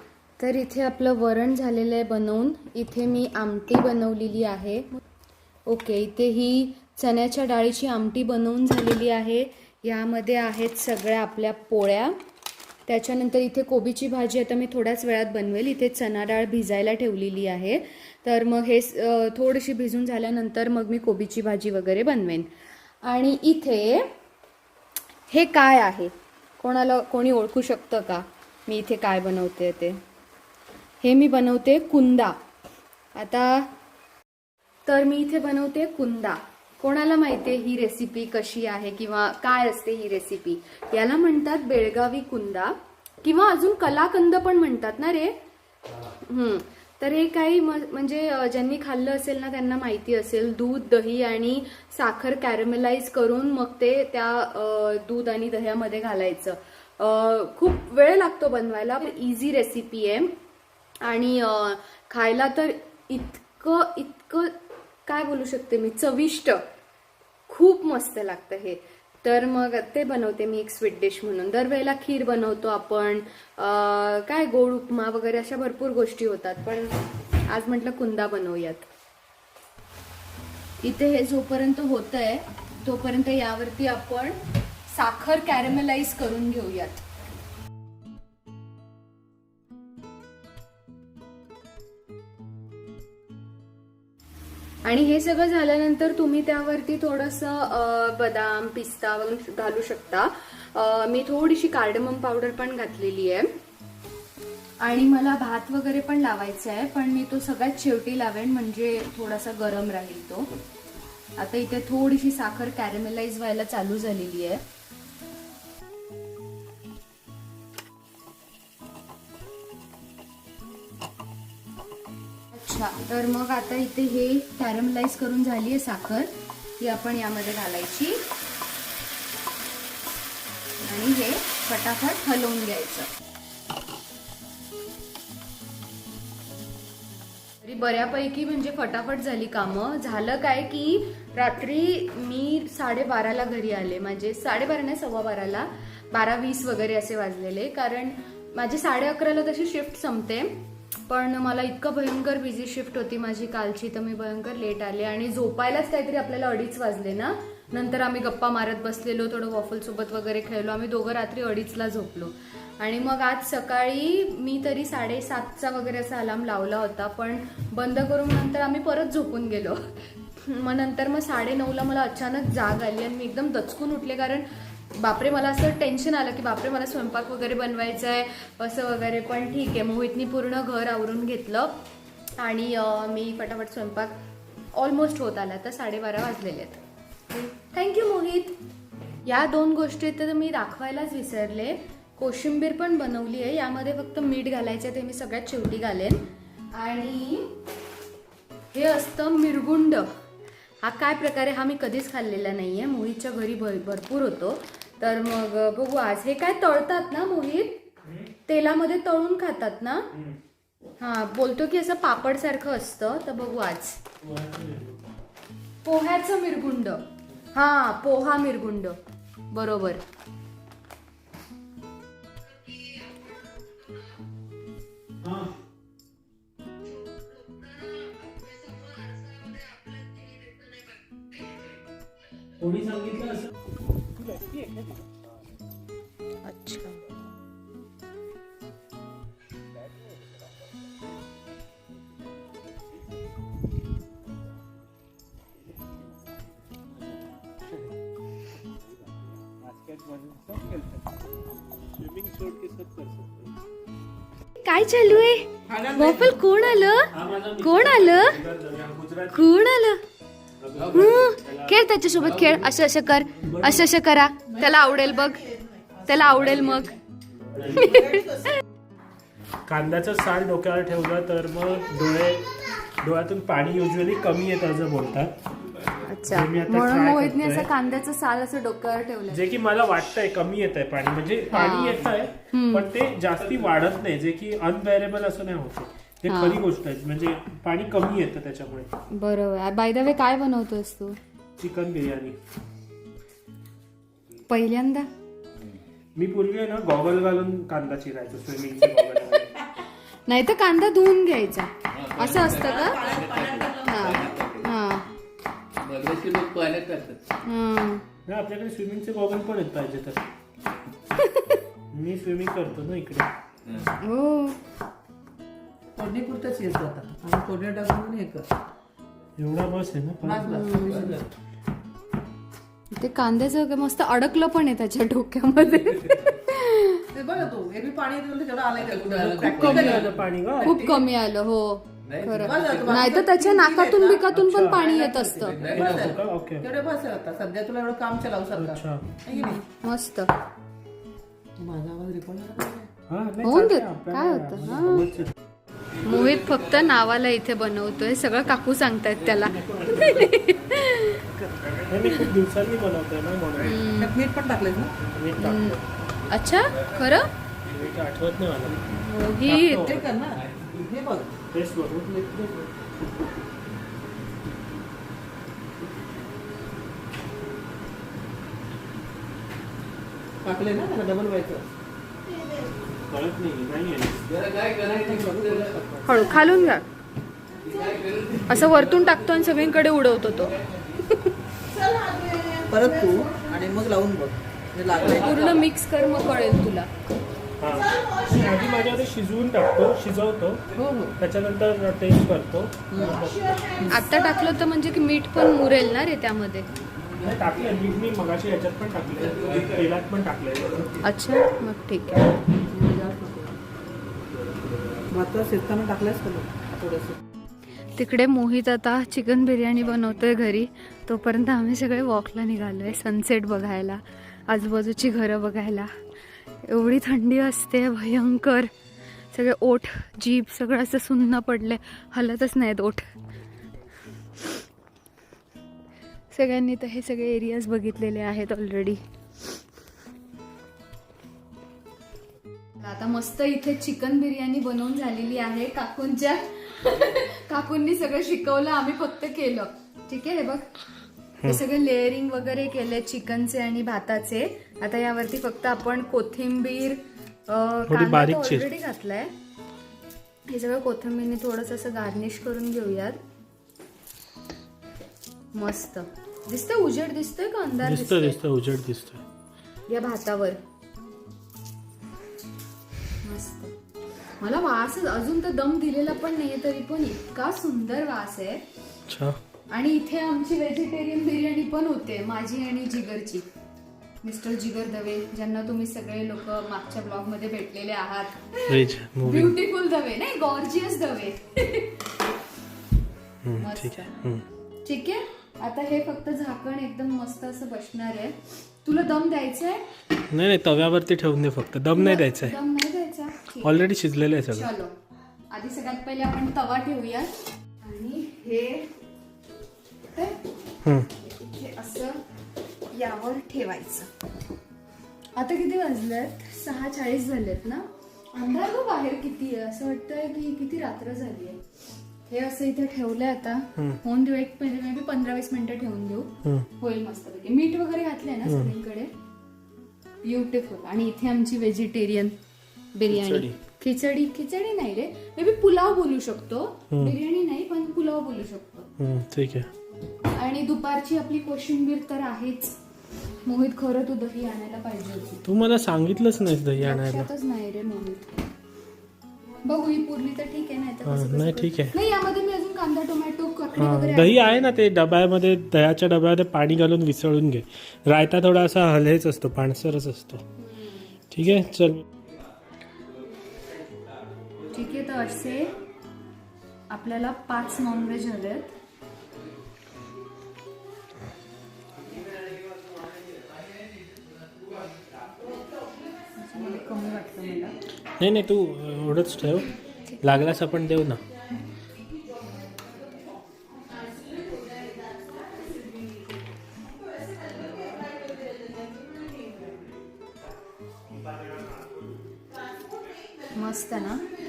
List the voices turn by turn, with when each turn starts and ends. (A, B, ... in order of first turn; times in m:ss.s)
0:00.4-0:05.0 A
0:05.6-0:12.2 A
0:12.8-0:22.5 A
0:23.0-0:24.1 A
0:25.3-0:30.0 A
0:31.0-0:32.4 A
0:33.1-0:33.7 A
0:34.8-0:45.4 A
0:46.3-1:00.4 A
1:01.0-1:04.5 A
1:05.0-1:06.6 A
1:07.5-1:17.0 A
1:17.5-1:18.8 A
1:20.8-1:27.0 A
1:34.8-1:43.5 A
1:44.8-1:50.5 A
1:51.4-1:54.6 A
2:02.5-2:08.2 A
2:10.8-2:13.1 A
2:17.6-3:01.8 A
3:02.4-3:04.2 A
3:04.7-3:06.8 A
3:07.3-3:08.6 A
3:09.2-3:17.6 A
3:18.7-3:20.1 A
3:20.8-3:27.8 A
3:28.0-3:28.3 B
3:28.5-3:30.1 A
3:31.0-3:34.0 A
3:34.2-3:35.0 B
3:35.8-3:39.0 A
3:39.5-3:40.0 A
3:45.2-3:45.5 B
3:52.6-3:53.5 B
3:54.2-3:55.0 B
3:56.4-3:57.0 A
4:08.9-4:11.0 B
4:11.9-4:13.5 B
4:14.6-4:18.4 A
4:17.1-4:19.5 B
4:19.3-4:20.0 A
4:20.6-4:22.7 B
4:20.9-4:25.4 A
4:23.4-4:23.9 B
4:26.0-4:27.0 A
4:27.5-4:28.3 B
4:27.8-4:28.4 A
4:29.6-4:35.4 B
4:36.0-4:39.4 A
4:36.2-4:37.7 B
4:39.3-4:48.9 B
4:41.5-4:42.9 A
4:46.3-4:46.6 A
4:49.1-4:51.2 A
4:51.6-4:52.4 B
4:54.5-4:55.1 A
4:56.2-4:59.6 B
5:00.3-5:03.0 A
5:01.9-5:04.6 C
5:03.0-5:03.6 D
5:03.8-5:05.1 A
5:05.8-5:07.2 C
5:07.4-5:08.0 A
5:08.3-5:10.3 B
5:11.2-5:11.4 A
5:11.9-5:13.3 B
5:14.0-5:14.6 A
5:16.0-5:18.4 D
5:19.4-5:20.5 B
5:20.2-5:21.3 D
5:20.5-5:21.1 A
5:23.0-5:27.0 A
5:27.1-5:31.1 D
5:28.8-5:30.2 C
5:29.6-5:29.9 A
5:29.6-5:30.8 B
5:30.6-5:35.6 A
5:32.1-5:33.0 C
5:32.3-5:39.6 D
5:34.3-5:34.8 B
5:35.5-5:36.2 C
5:35.6-5:36.6 B
5:38.6-5:39.0 B
5:39.3-5:40.3 A
5:41.6-5:42.9 D
5:43.1-5:45.3 B
5:43.4-5:45.1 A
5:46.0-5:51.2 A
5:46.1-5:46.4 C
5:49.6-5:50.5 B
5:51.3-5:51.8 D
5:51.8-5:53.9 B
5:53.6-5:54.1 A
5:53.9-5:54.9 D
5:55.0-5:55.8 B
5:55.4-5:55.8 A
5:56.3-5:57.3 A
5:57.7-5:58.8 B
5:59.0-6:00.0 A
5:59.4-6:00.0 B
5:59.6-6:01.3 D
6:01.5-6:02.5 B
6:02.1-6:02.4 D
6:10.4-6:11.6 D
6:13.1-6:14.2 B
6:14.3-6:16.2 C
6:14.9-6:16.4 D
6:16.0-6:16.8 A
6:17.6-6:21.0 C
6:18.5-6:20.5 A
6:22.6-6:25.6 D
6:25.0-6:26.9 A
6:27.6-6:30.6 B
6:30.8-6:31.1 A
6:31.2-6:33.8 B
6:32.9-6:33.2 A
6:33.8-6:36.7 A
6:37.2-6:40.9 B
6:41.0-6:43.5 A
6:45.1-6:47.2 D
6:48.0-6:55.9 A
6:56.6-6:58.7 A
6:59.3-7:03.1 A
7:06.3-7:09.0 A
7:12.8-7:20.7 A
7:21.4-7:29.3 A
7:27.9-7:28.7 B
7:30.5-7:33.2 A
7:35.5-7:38.4 A
7:37.8-7:39.2 B
7:39.9-7:40.6 A
7:43.2-7:43.7 A
7:44.4-7:48.6 A
7:49.1-7:49.4 B
7:49.7-7:53.5 A
7:54.2-8:02.0 A
7:58.7-7:59.6 B
8:03.4-8:04.4 B
8:03.6-8:04.1 A
8:04.8-8:09.9 A
8:10.3-8:12.6 B
8:11.9-8:13.8 A
8:13.6-8:14.7 B
8:14.5-8:14.9 A
8:15.5-8:18.9 A
8:20.8-8:21.1 B
8:21.2-8:22.2 A
8:22.9-8:24.1 A
8:25.3-8:31.6 A
8:32.3-8:39.1 A
8:38.4-8:38.7 B
8:40.2-8:42.4 A
8:42.9-8:48.9 A
8:43.1-8:43.6 B
8:46.9-8:47.2 B
8:49.0-8:49.7 B
8:50.3-8:52.7 A
8:53.4-8:55.4 A
8:55.4-8:57.3 B
8:56.8-8:58.3 A
8:59.6-9:04.7 A
9:01.0-9:01.9 B
9:03.8-9:10.4 B
9:10.6-9:11.1 A
9:11.3-9:12.0 B
9:14.7-9:15.7 A
9:16.9-9:18.8 A
9:26.4-9:27.8 A
9:28.2-9:31.2 B
9:43.5-9:44.2 A